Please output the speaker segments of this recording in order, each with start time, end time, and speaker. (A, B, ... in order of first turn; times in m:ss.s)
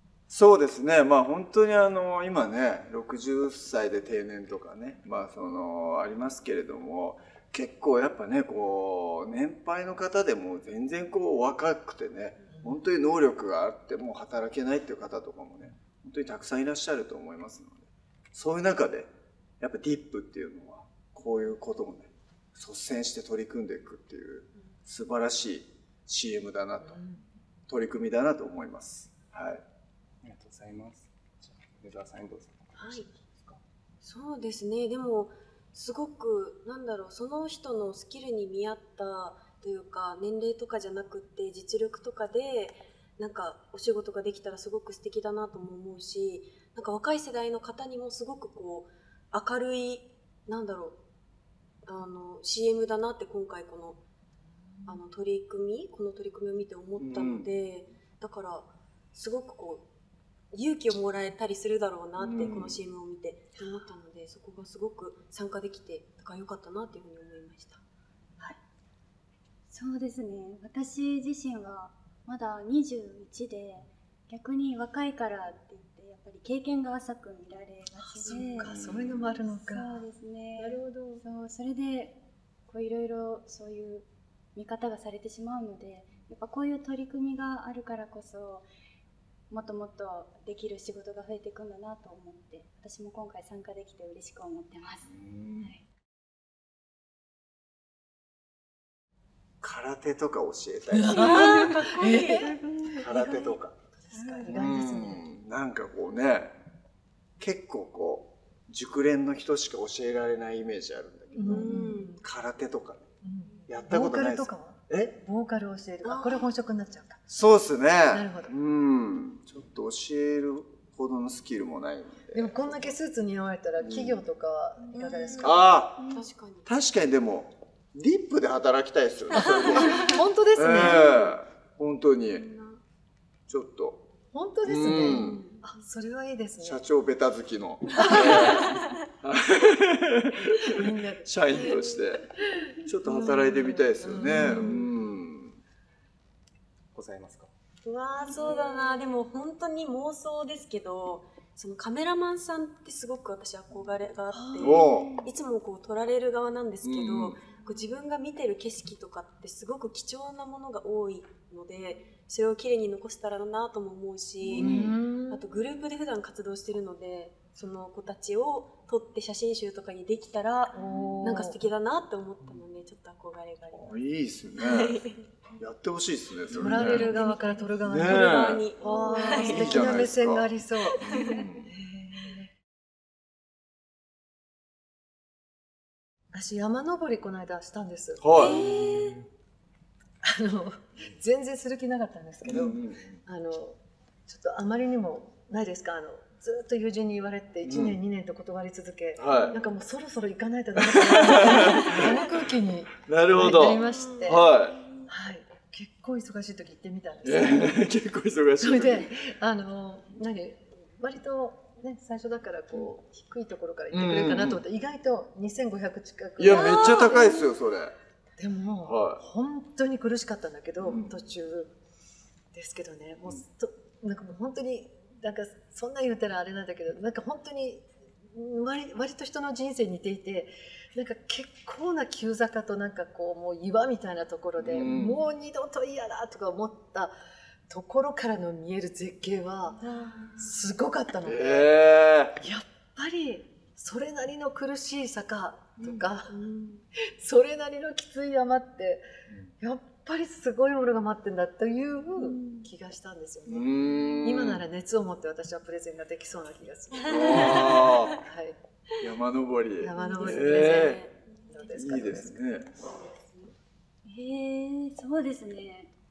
0:00.3-0:27.0 A
0:26.8-0:27.2 B
0:27.7-0:29.6 A
0:30.2-0:33.6 C
0:32.8-0:33.1 D
0:34.0-0:51.0 D
0:51.8-0:54.0 D
0:54.4-0:55.0 B
0:54.9-0:59.8 D
0:57.0-0:57.5 A
1:00.5-1:07.8 D
1:02.2-1:02.8 A
1:09.7-1:18.8 E
1:18.0-1:20.0 B
1:18.6-1:19.2 A
1:19.4-1:28.7 E
1:20.6-1:21.2 B
1:29.5-1:35.1 E
1:35.1-1:35.7 A
1:39.6-1:41.8 A
1:40.9-1:45.2 B
1:41.1-1:42.4 D
1:42.0-1:42.5 E
1:42.9-1:43.7 A
1:44.1-1:44.6 E
1:44.5-1:46.5 A
1:47.4-1:53.0 A
1:51.3-1:52.1 B
1:51.4-1:52.2 D
1:53.2-1:57.2 B
1:53.7-1:55.1 A
1:56.0-1:56.5 D
1:57.3-2:02.9 A
1:58.1-1:58.5 B
2:02.3-2:05.7 B
2:03.8-2:04.2 A
2:04.9-2:06.6 D
2:05.4-2:12.4 A
2:09.4-2:10.1 D
2:09.6-2:11.3 B
2:12.2-2:12.8 D
2:13.5-2:14.0 A
2:14.3-2:16.8 B
2:14.6-2:15.4 A
2:15.0-2:15.6 D
2:16.6-2:20.4 A
2:18.0-2:18.8 B
2:18.0-2:18.9 D
2:20.4-2:21.7 B
2:21.2-2:22.3 A
2:22.8-2:25.6 A
2:23.0-2:24.9 B
2:24.3-2:24.9 D
2:26.9-2:27.5 C
2:27.8-2:29.0 B
2:27.9-2:44.8 D
2:34.3-2:35.1 B
2:34.6-2:35.2 A
2:36.8-2:37.4 A
2:44.5-2:45.0 A
2:44.5-2:45.4 B
2:45.3-2:54.0 D
2:50.7-2:51.6 B
2:53.7-2:55.0 A
2:54.5-2:55.2 D
2:55.6-2:57.2 A
2:56.5-3:02.5 B
2:56.5-2:59.9 D
2:57.9-2:58.7 A
2:58.9-2:59.4 E
2:59.4-3:01.7 A
3:01.0-3:01.4 D
3:06.3-3:08.6 B
3:08.2-3:09.2 A
3:08.3-3:09.2 D
3:10.2-3:24.5 B
3:12.4-3:13.2 A
3:17.6-3:18.0 A
3:19.2-3:19.6 A
3:20.8-3:22.2 A
3:21.5-3:22.1 D
3:23.1-3:24.8 A
3:23.6-3:24.9 D
3:25.1-3:27.8 B
3:27.2-3:29.1 A
3:28.6-3:37.4 B
3:33.9-3:34.6 A
3:36.4-3:38.0 A
3:36.5-3:37.2 D
3:38.4-3:41.7 B
3:38.8-3:39.2 A
3:40.8-3:41.1 A
3:42.5-3:57.2 B
3:54.6-3:55.2 A
3:57.7-3:59.8 B
3:59.8-4:00.5 D
4:00.4-4:01.7 B
4:01.2-4:02.4 A
4:02.4-4:06.3 B
4:05.8-4:06.0 A
4:06.3-4:06.8 D
4:07.2-4:09.0 B
4:09.6-4:13.7 B
4:12.2-4:12.7 D
4:13.5-4:14.6 A
4:14.2-4:18.6 B
4:17.0-4:18.1 D
4:17.1-4:18.1 A
4:19.0-4:21.0 A
4:19.8-4:22.4 B
4:20.0-4:21.1 D
4:21.7-4:22.7 A
4:22.8-4:23.5 E
4:24.0-4:25.9 E